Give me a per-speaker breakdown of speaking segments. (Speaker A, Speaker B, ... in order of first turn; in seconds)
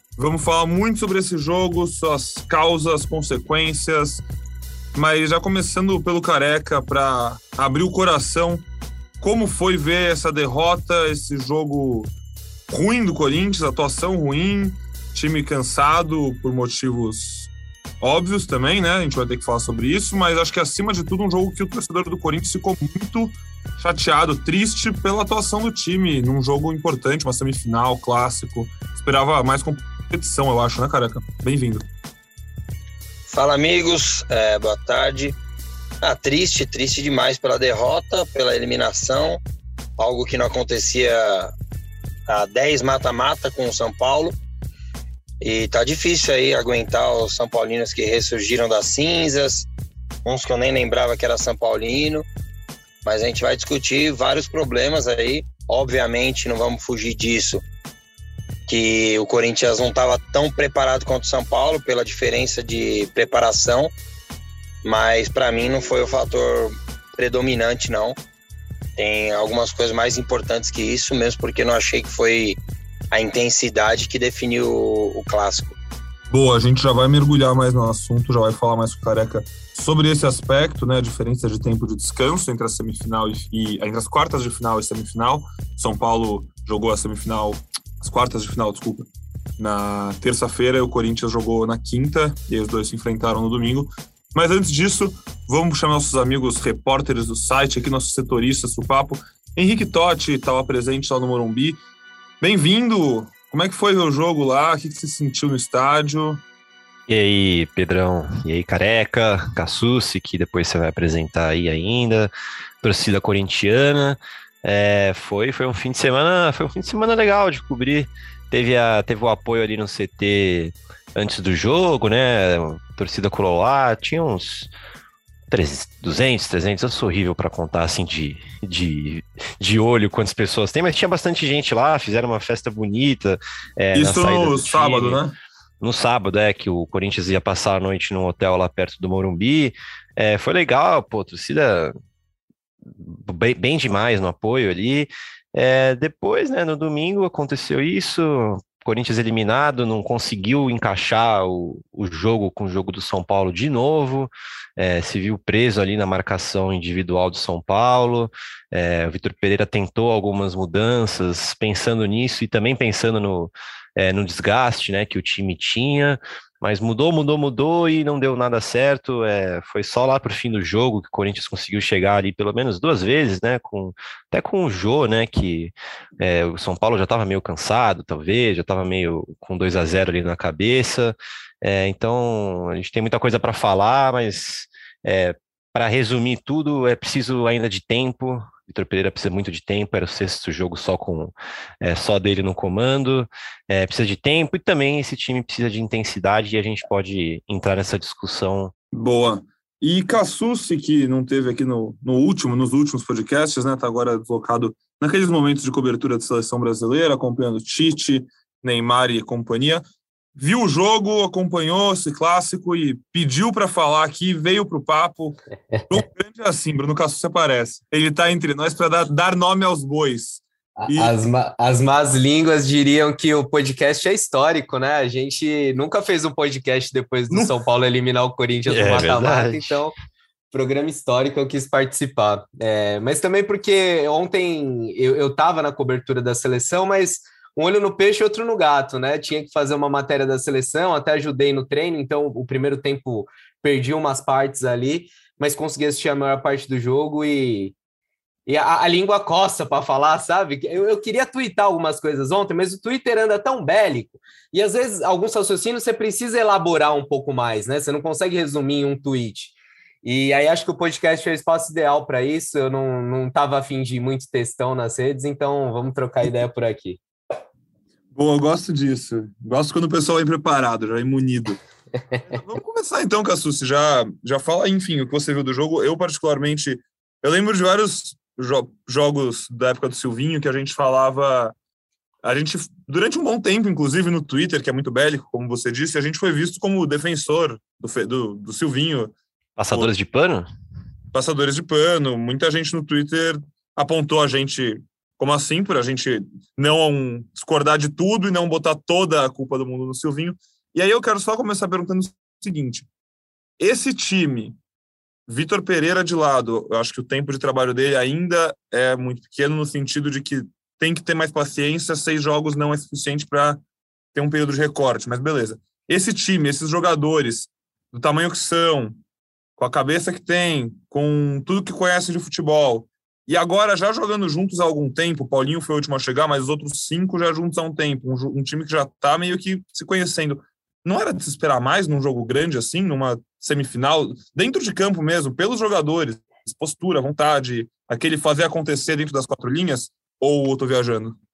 Speaker A: 0.1-4.2, 5.0-8.6, 9.2-12.1, 12.7-17.5, 18.0-31.9, 76.3-101.8, 102.4-106.4, 133.9-135.3, 198.9-209.8, 210.3-221.2, 268.1-271.6, 272.3-281.5, 282.2-289.1, 291.1-302.9, 303.6-304.6, 305.3-313.6, 314.1-319.0, 319.6-341.2
Speaker B: 33.3-35.4, 36.0-39.4, 40.0-41.5, 42.3-44.4, 45.4-49.7, 50.2-52.2, 53.0-57.6, 58.7-64.0, 64.8-68.2, 69.0-72.6, 73.1-75.8
Speaker C: 107.1-112.3, 112.8-124.7, 125.5-135.2, 135.8-141.9, 142.9-198.7, 228.7-229.8, 289.6-290.5
Speaker D: 220.8-229.9, 230.5-247.8, 248.5-267.0